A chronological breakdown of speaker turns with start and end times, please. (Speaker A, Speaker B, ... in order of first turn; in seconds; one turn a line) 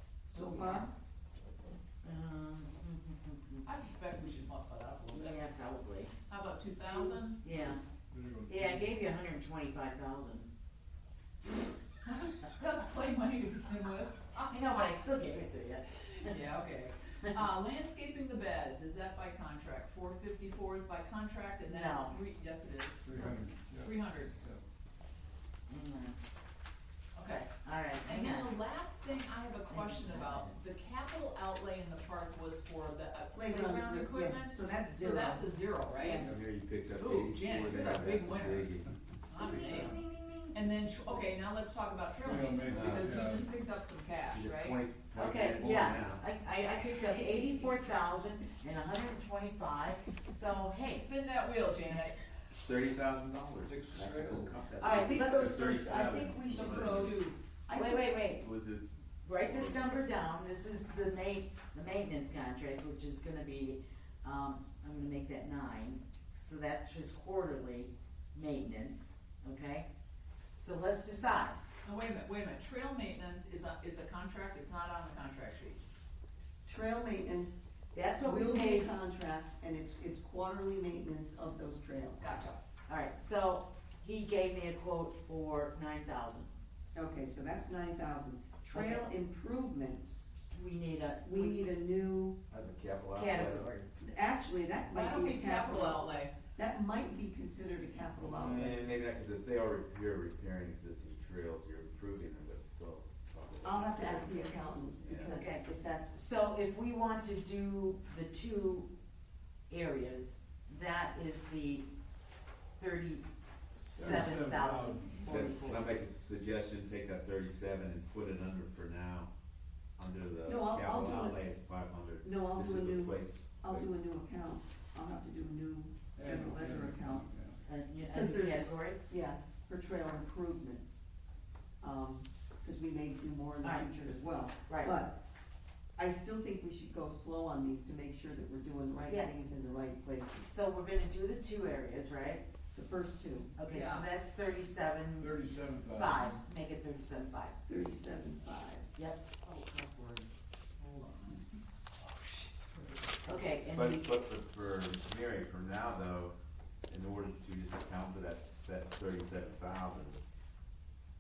Speaker A: 0.3-0.9
Speaker B: 0.3-0.9
Speaker C: 2.0-3.7
Speaker B: 3.7-5.4
Speaker C: 5.1-6.1
Speaker B: 6.3-7.4
Speaker C: 6.9-7.8
Speaker D: 8.1-8.9
Speaker C: 8.5-10.5
Speaker B: 12.1-15.1
Speaker C: 14.5-16.4
Speaker B: 15.9-24.4
Speaker C: 21.7-22.2
Speaker D: 23.1-24.6
Speaker C: 25.7-26.2
Speaker B: 27.1-27.5
Speaker C: 27.6-28.5
Speaker B: 28.0-36.3
Speaker C: 29.7-30.6
Speaker A: 33.3-36.4
Speaker E: 36.2-38.9
Speaker B: 37.0-38.8
Speaker B: 39.3-40.0
Speaker C: 39.4-40.6
Speaker B: 40.5-44.8
Speaker D: 42.2-43.5
Speaker E: 42.7-43.2
Speaker E: 44.3-46.2
Speaker C: 45.1-51.0
Speaker B: 47.0-47.7
Speaker B: 50.9-52.3
Speaker E: 52.6-57.1
Speaker D: 53.6-54.8
Speaker C: 54.8-55.7
Speaker A: 54.8-58.2
Speaker B: 56.5-57.4
Speaker C: 57.7-58.5
Speaker E: 58.3-59.9
Speaker C: 59.2-69.9
Speaker C: 70.6-71.6
Speaker B: 71.8-75.8
Speaker A: 76.7-77.7
Speaker C: 77.9-78.9
Speaker A: 78.2-82.3
Speaker B: 82.2-82.6
Speaker C: 82.9-86.5
Speaker A: 87.0-90.3
Speaker C: 88.7-89.1
Speaker C: 90.5-91.6
Speaker A: 91.2-92.4
Speaker E: 92.5-93.7
Speaker C: 93.1-93.9
Speaker A: 94.0-98.9
Speaker B: 94.9-96.3
Speaker E: 98.2-105.3
Speaker A: 103.6-106.2
Speaker C: 105.3-108.9
Speaker C: 109.7-111.9
Speaker C: 112.8-113.2
Speaker C: 113.9-116.0
Speaker E: 113.9-114.3
Speaker D: 114.0-115.8
Speaker E: 115.3-119.3
Speaker E: 120.0-124.0
Speaker A: 120.5-121.4
Speaker A: 122.2-127.3
Speaker D: 126.2-127.6
Speaker C: 127.7-129.0
Speaker A: 128.1-131.0
Speaker A: 131.8-135.2
Speaker C: 133.6-133.9
Speaker C: 134.7-134.9
Speaker A: 136.0-140.5
Speaker C: 139.0-139.5
Speaker C: 140.4-142.4
Speaker A: 142.7-143.5
Speaker C: 143.6-145.4
Speaker B: 143.6-144.1
Speaker D: 145.2-146.4
Speaker C: 145.9-147.6
Speaker A: 147.7-148.9
Speaker C: 148.9-149.2
Speaker B: 149.4-153.4
Speaker C: 153.2-154.1
Speaker E: 153.7-156.3
Speaker E: 156.9-160.2